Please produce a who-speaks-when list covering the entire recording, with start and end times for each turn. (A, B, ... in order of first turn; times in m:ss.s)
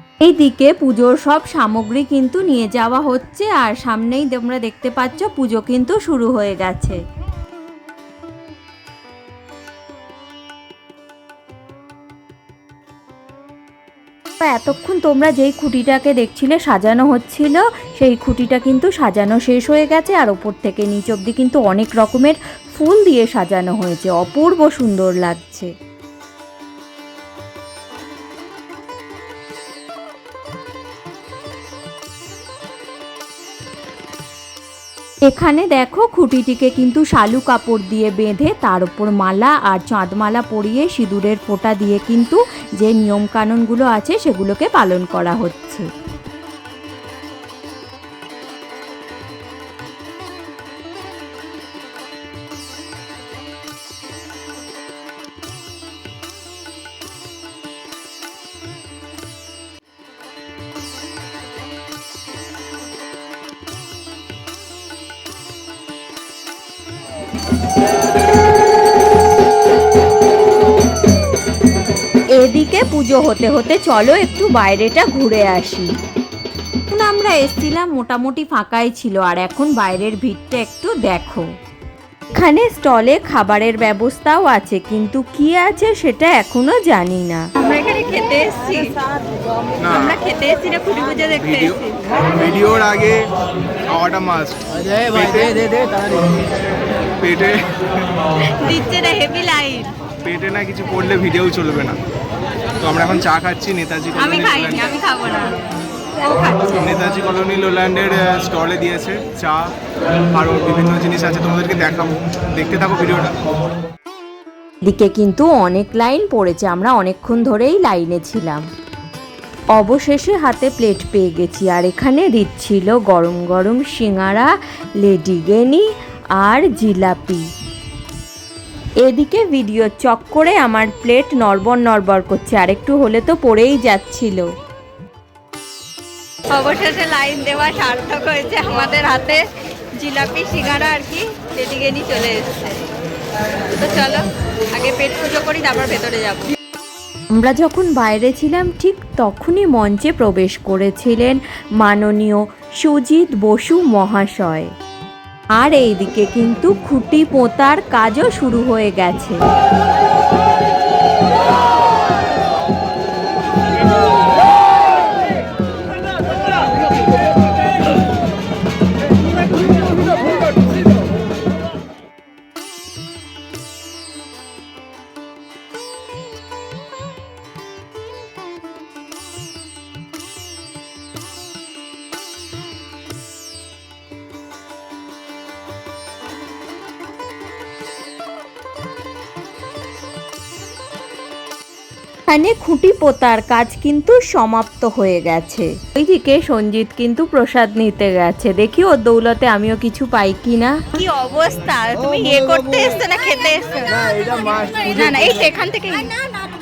0:00.2-0:07.0 A
0:14.4-0:25.7 A
0:35.3-0:45.9 A
1:12.4-1:15.9 A
1:16.9-1:21.5 A
1:22.3-1:27.4 A
1:27.6-1:28.9 B
1:29.8-1:30.2 C
1:29.9-1:32.0 B
1:31.4-1:33.3 C
1:33.9-1:35.7 C
1:37.2-1:38.1 C
1:38.6-1:39.9 B
1:40.2-1:42.0 C
1:42.8-1:44.9 C
1:44.2-1:45.5 B
1:46.2-1:46.9 B
1:46.7-1:49.7 C
1:50.3-1:53.3 C
1:54.8-1:58.6 A
1:59.8-2:04.5 A
2:05.0-2:05.9 A
2:06.4-2:07.5 A
2:09.0-2:14.5 A
2:16.5-2:19.4 B
2:20.0-2:22.8 B
2:23.8-2:26.5 B
2:27.4-2:34.7 A
2:35.6-2:39.4 A
3:12.3-3:20.8 A
3:20.9-3:26.1 B